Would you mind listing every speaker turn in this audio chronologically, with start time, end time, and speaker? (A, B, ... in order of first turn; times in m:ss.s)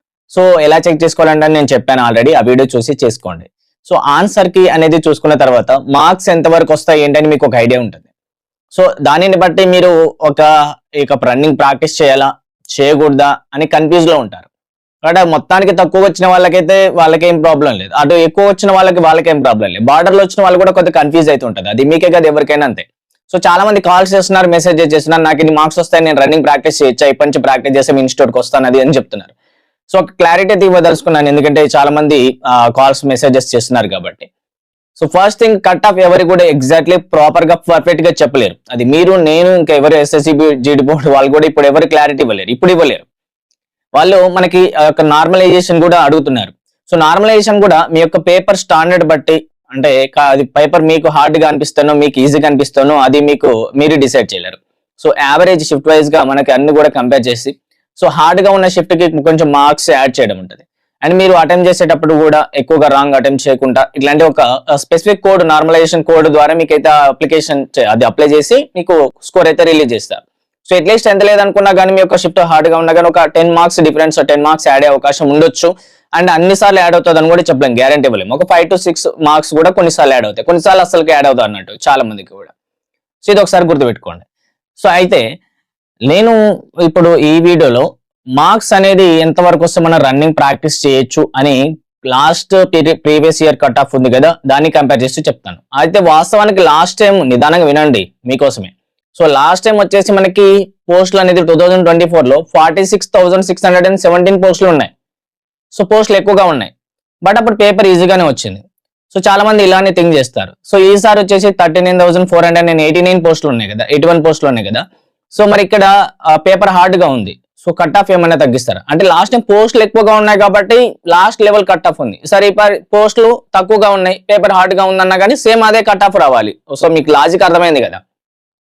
0:00.3-0:08.0 A
0:08.7-0:10.5 A
0:11.0-0:14.5 A
0:15.0-0:29.3 A
0:29.9-0:32.2 A
0:32.8-0:34.3 A
0:35.0-0:43.0 A
0:44.0-1:22.5 A
1:23.2-1:24.2 A
1:24.8-1:25.2 A
1:26.1-1:26.4 A
1:26.9-1:27.8 A
1:28.4-1:31.6 A
1:32.1-1:44.9 A
1:45.7-1:46.7 A
1:47.2-1:54.8 A
1:55.3-2:08.0 A